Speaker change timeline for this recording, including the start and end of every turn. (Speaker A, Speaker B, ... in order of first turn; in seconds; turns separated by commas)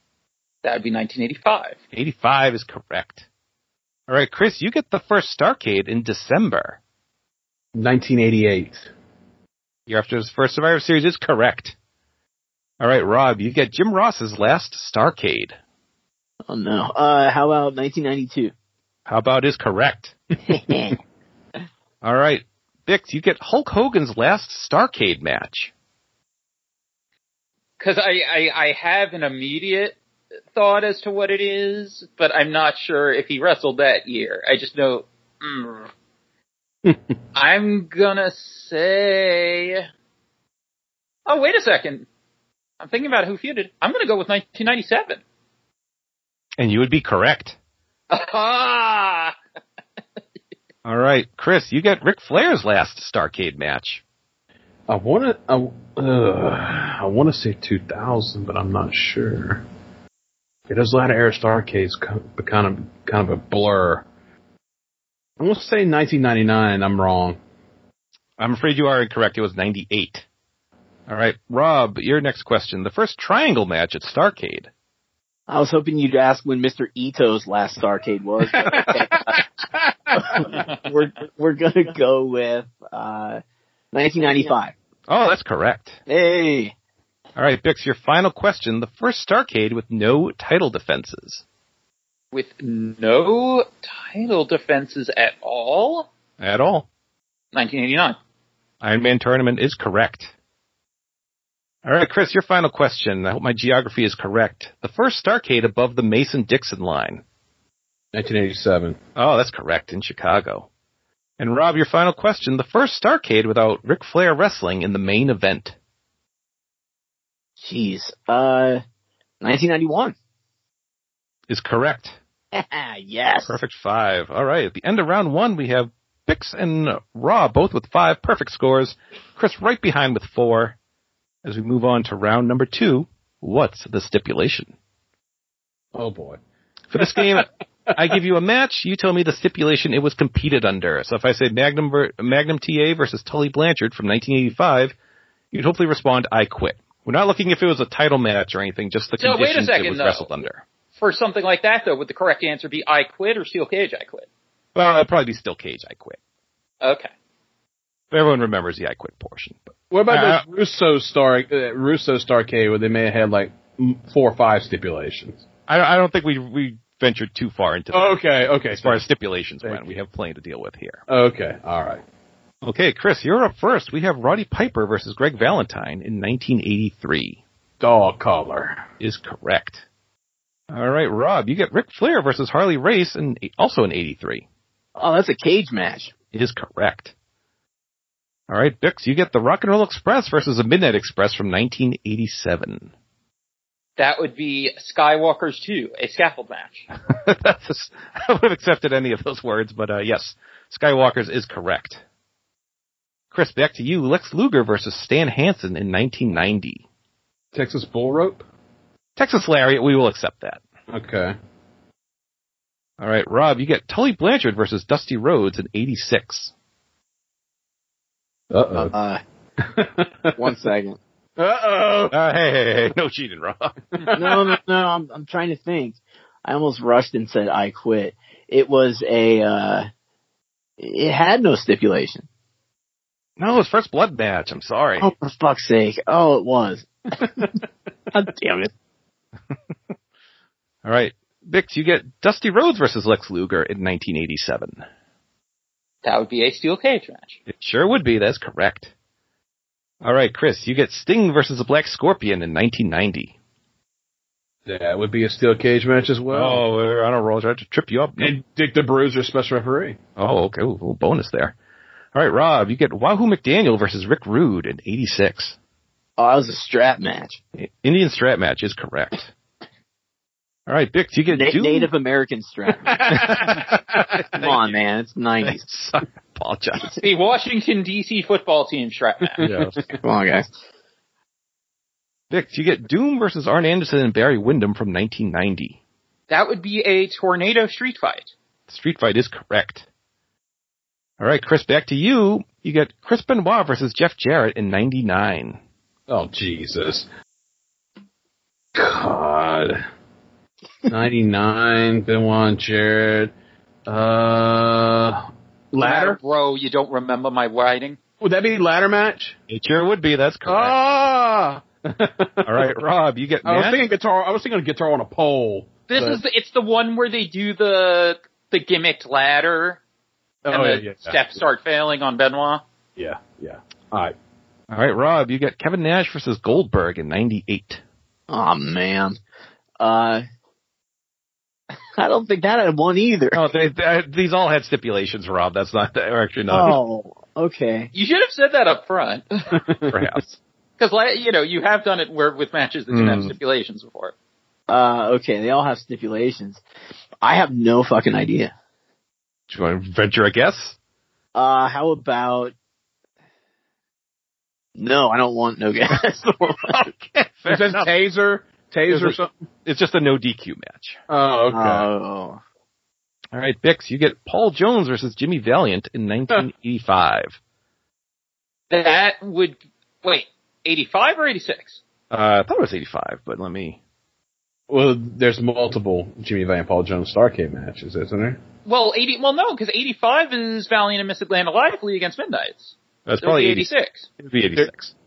Speaker A: 0.6-1.8, Speaker B: 1.9-3.2, Speaker B: 4.1-6.8, Speaker C: 7.8-8.9, Speaker B: 9.9-11.7, Speaker B: 12.8-15.6, Speaker D: 16.5-18.5, Speaker B: 19.1-20.1, Speaker D: 20.4-20.9, Speaker B: 22.0-25.7, Speaker A: 27.8-30.0, Speaker A: 30.5-35.9, Speaker A: 37.3-39.8, Speaker A: 41.2-42.0, Speaker A: 42.8-45.2, Speaker B: 46.6-47.5, Speaker A: 48.1-49.3, Speaker B: 50.8-54.0, Speaker C: 54.9-59.6, Speaker C: 60.7-64.1, Speaker C: 65.4-67.4, Speaker B: 68.4-70.2, Speaker B: 71.1-74.7, Speaker D: 75.5-79.4, Speaker C: 78.5-79.4, Speaker C: 80.1-80.5, Speaker D: 80.1-83.4, Speaker D: 83.9-84.7, Speaker B: 85.1-86.0, Speaker D: 86.1-86.7, Speaker B: 87.3-91.4, Speaker A: 92.3-96.1, Speaker B: 96.4-96.9, Speaker A: 97.5-98.2, Speaker B: 98.8-100.3, Speaker B: 101.8-107.2, Speaker C: 108.1-109.0, Speaker B: 109.2-110.7, Speaker B: 111.4-115.7, Speaker D: 117.6-118.8, Speaker D: 119.4-120.2, Speaker B: 121.5-122.2, Speaker D: 122.5-123.6, Speaker B: 123.5-130.7, Speaker B: 131.4-134.7, Speaker C: 135.9-136.4, Speaker B: 136.9-144.9, Speaker C: 137.1-137.4, Speaker B: 145.5-150.6, Speaker A: 149.2-150.3, Speaker A: 151.0-154.2, Speaker B: 154.7-156.2, Speaker A: 156.8-157.1, Speaker B: 158.1-160.4, Speaker C: 159.9-165.4, Speaker B: 165.7-168.2, Speaker C: 167.9-169.0, Speaker B: 168.7-171.0, Speaker C: 171.1-172.0, Speaker B: 172.6-177.4, Speaker C: 177.8-178.8, Speaker B: 179.0-179.8, Speaker B: 180.7-184.4, Speaker D: 184.9-186.1, Speaker B: 186.3-187.1, Speaker B: 188.5-192.9, Speaker A: 194.0-196.9, Speaker B: 197.1-202.0, Speaker B: 203.3-206.8, Speaker C: 207.5-208.4, Speaker B: 209.2-210.6, Speaker C: 210.9-211.3, Speaker B: 213.0-216.5, Speaker C: 218.5-218.9, Speaker D: 218.8-219.2, Speaker C: 219.6-220.4, Speaker D: 220.3-221.0, Speaker C: 221.4-222.1, Speaker B: 222.1-223.8, Speaker C: 224.0-224.5, Speaker D: 224.1-229.9, Speaker D: 230.8-232.3, Speaker B: 233.4-235.1, Speaker D: 235.0-236.9, Speaker D: 238.1-238.7, Speaker B: 240.8-244.8, Speaker A: 246.0-247.4, Speaker B: 247.5-248.9, Speaker B: 250.0-253.3, Speaker C: 254.7-256.6, Speaker B: 256.3-258.3, Speaker C: 258.2-260.0, Speaker B: 260.2-261.5, Speaker B: 262.1-265.6, Speaker D: 266.2-267.4, Speaker B: 267.6-269.3, Speaker B: 270.7-271.9, Speaker D: 271.3-273.3, Speaker C: 272.8-274.1, Speaker B: 273.1-274.8, Speaker D: 274.4-275.6, Speaker B: 275.4-276.9, Speaker A: 276.8-279.4, Speaker C: 279.4-279.9, Speaker B: 279.4-279.9, Speaker D: 280.0-280.4, Speaker B: 282.3-285.8, Speaker A: 286.3-288.3, Speaker B: 288.7-289.9, Speaker B: 291.2-295.6, Speaker C: 296.1-297.1, Speaker C: 298.7-299.8, Speaker C: 300.9-303.3, Speaker C: 303.9-306.2, Speaker A: 305.8-308.0, Speaker C: 308.2-309.4, Speaker B: 309.5-310.7, Speaker C: 310.4-312.7, Speaker B: 312.4-313.8, Speaker C: 313.4-316.2, Speaker A: 315.9-319.8, Speaker C: 320.4-321.2, Speaker A: 320.5-322.6, Speaker C: 323.0-324.1, Speaker B: 324.7-327.8, Speaker D: 328.3-329.2, Speaker D: 329.8-330.2, Speaker D: 332.0-333.4, Speaker B: 333.3-336.8, Speaker D: 336.5-337.9, Speaker A: 337.9-339.3, Speaker C: 339.5-340.1, Speaker B: 339.9-340.4, Speaker A: 340.8-344.1, Speaker B: 342.9-343.3, Speaker D: 344.7-346.6, Speaker D: 347.2-348.5, Speaker B: 349.5-350.8, Speaker D: 351.3-352.5, Speaker D: 354.8-356.8, Speaker B: 356.6-357.9, Speaker C: 357.5-359.4, Speaker B: 358.9-361.0, Speaker C: 361.1-361.9, Speaker D: 361.5-362.4, Speaker B: 363.3-367.4, Speaker A: 368.7-371.8, Speaker B: 372.1-373.8, Speaker C: 374.7-378.4, Speaker A: 378.6-384.1, Speaker B: 383.1-383.7, Speaker B: 384.2-384.9